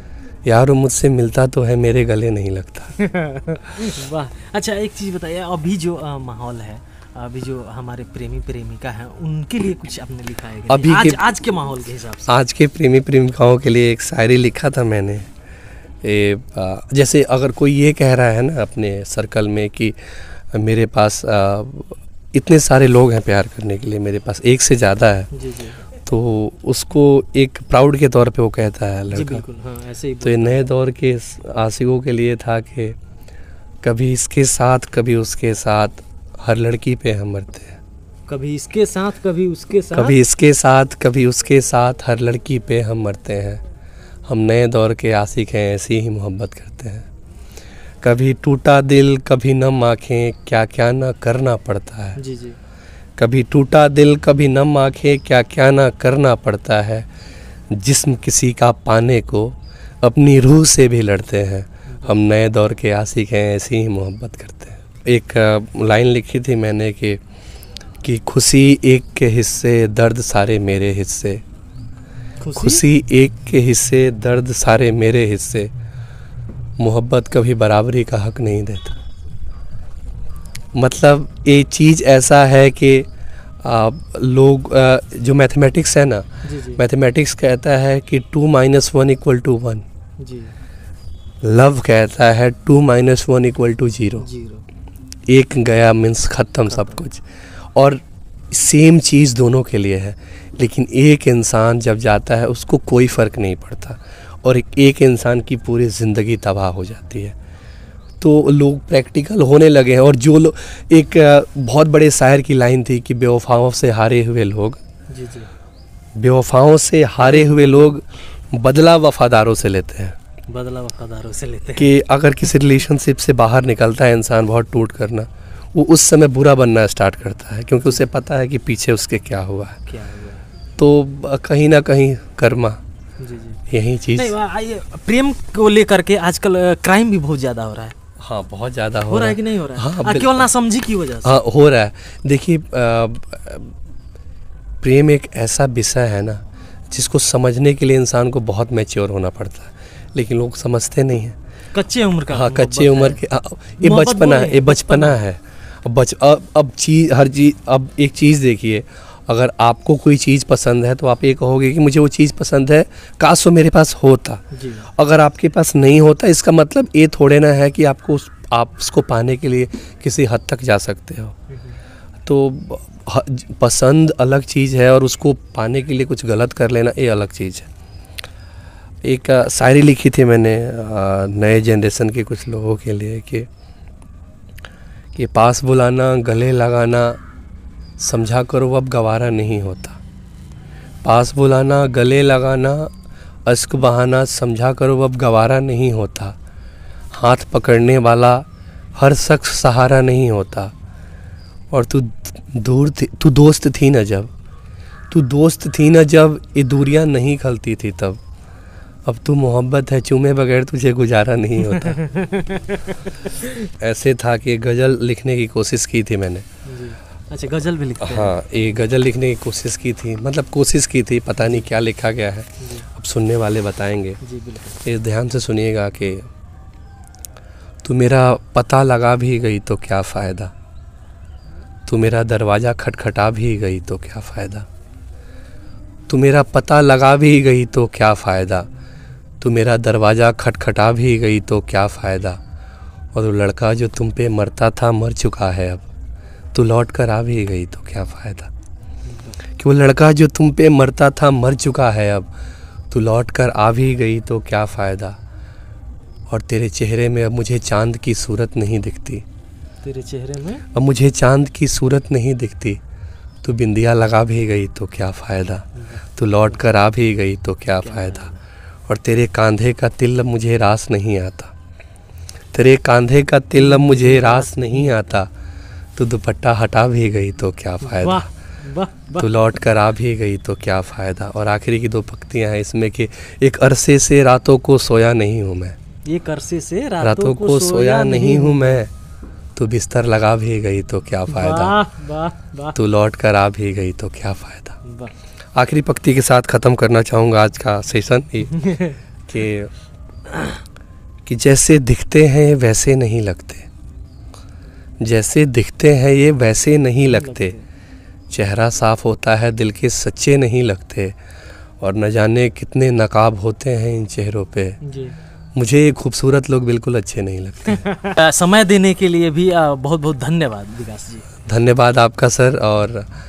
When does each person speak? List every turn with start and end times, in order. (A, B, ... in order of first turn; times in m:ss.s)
0:00.4-0:03.0 A
0:03.0-0:12.3 B
0:10.7-0:11.3 A
0:12.3-0:15.3 A
0:16.0-0:25.3 A
0:25.3-0:25.8 B
0:26.0-0:29.4 A
0:29.1-0:30.6 B
0:30.2-0:33.0 A
0:33.8-0:37.8 A
0:38.3-0:40.2 B
0:39.9-0:43.6 A
0:44.3-0:47.1 A
0:48.0-0:52.2 A
0:52.2-0:52.6 B
0:53.2-0:57.1 A
0:57.7-1:07.2 A
1:01.9-1:02.2 B
1:08.0-1:11.4 A
1:12.4-1:12.8 B
1:12.6-1:15.7 A
1:16.8-1:19.0 A
1:20.8-1:23.1 A
1:23.6-1:29.8 A
1:26.4-1:26.8 B
1:30.2-1:30.6 B
1:31.4-1:34.3 A
1:34.2-1:34.7 B
1:35.3-1:47.4 A
1:36.7-1:37.0 B
1:48.2-1:54.8 A
1:55.1-1:55.5 B
1:56.2-2:00.2 A
2:00.5-2:01.9 B
2:01.8-2:09.8 A
2:09.9-2:10.4 B
2:10.8-2:12.8 A
2:13.2-2:13.6 B
2:13.7-2:14.3 A
2:14.1-2:18.0 B
2:18.2-2:20.4 A
2:19.1-2:21.4 B
2:21.2-2:23.8 A
2:24.8-2:31.4 A
2:31.7-2:33.2 B
2:32.3-2:51.4 A
2:33.8-2:35.2 B
2:44.5-2:44.9 B
2:51.5-2:51.8 B
2:52.2-2:57.7 A
2:59.0-3:03.5 A
3:05.1-3:07.2 A
3:08.0-3:10.0 A
3:11.0-3:12.9 A
3:13.4-3:16.4 A
3:17.1-3:20.7 A
3:21.7-3:24.3 A
3:25.1-3:28.2 A
3:29.1-3:32.0 A
3:31.6-3:33.7 B
3:33.7-3:36.4 A
3:36.6-3:38.4 B
3:38.0-3:44.2 A
3:41.4-3:41.7 B
3:42.6-3:42.9 B
3:44.2-3:44.8 B
3:44.8-3:46.3 A
3:47.8-3:50.5 A
3:51.9-3:54.7 A
3:56.1-3:58.7 A
3:59.4-4:02.4 A
4:03.1-4:05.8 A
4:06.5-4:08.5 A
4:09.0-4:09.4 B
4:09.6-4:12.3 A
4:12.9-4:15.2 A
4:16.3-4:19.2 A
4:19.8-4:20.6 B
4:20.7-4:22.8 A
4:23.4-4:28.3 A
4:25.8-4:26.5 B
4:27.8-4:28.4 B
4:28.9-4:31.5 A
4:32.5-4:35.3 A
4:33.5-4:35.0 B
4:36.0-4:38.3 A
4:37.8-4:39.3 B
4:39.2-4:45.8 A
4:46.1-4:48.8 B
4:47.0-4:48.9 A
4:49.6-4:51.8 A
4:51.3-4:52.8 B
4:52.8-4:54.8 A
4:54.8-4:55.1 B
4:55.5-4:58.7 A
4:58.5-4:59.0 B
4:59.3-4:59.7 A
5:01.2-5:03.7 A
5:05.0-5:07.5 A
5:07.0-5:07.6 B
5:08.3-5:11.1 A
5:11.8-5:14.8 A
5:14.8-5:15.2 B
5:15.6-5:17.9 A
5:17.7-5:21.3 B
5:21.4-5:23.1 A